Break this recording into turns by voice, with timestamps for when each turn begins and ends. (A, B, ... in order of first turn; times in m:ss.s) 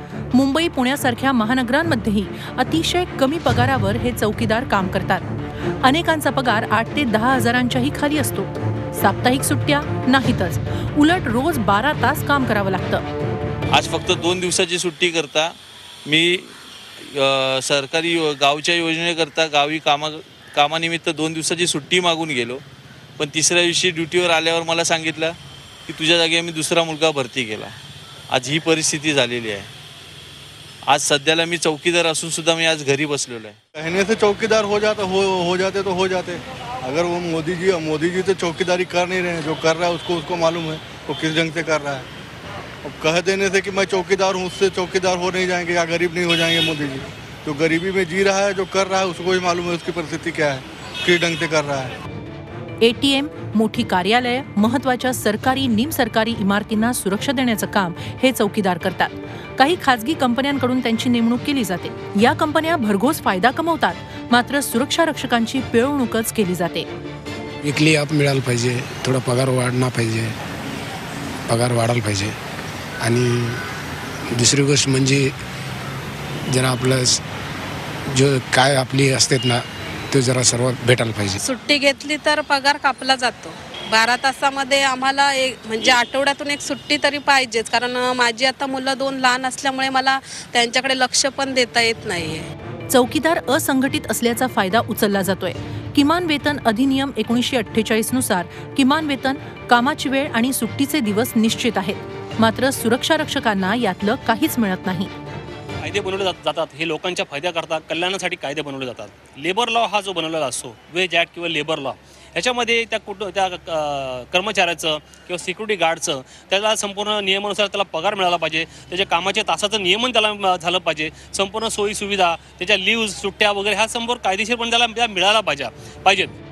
0:00.3-0:05.3 A
0:05.8-0:13.0 A
0:13.7-0:15.5 B
0:16.0-0:22.6 B
0:23.2-0:25.4 B
0:25.9-0:27.7 B
0:28.3-0:29.7 B
0:30.8-0:33.6 B
0:33.7-0:42.1 C
0:42.8-0:51.9 C
0:52.8-1:06.9 A
1:07.6-1:10.3 D
1:11.5-1:12.3 D
1:13.0-1:13.6 D
1:14.3-1:15.3 D
1:16.5-1:17.2 D
1:18.1-1:21.4 D
1:21.4-1:32.5 E
1:32.9-1:45.1 A
1:45.8-2:06.3 F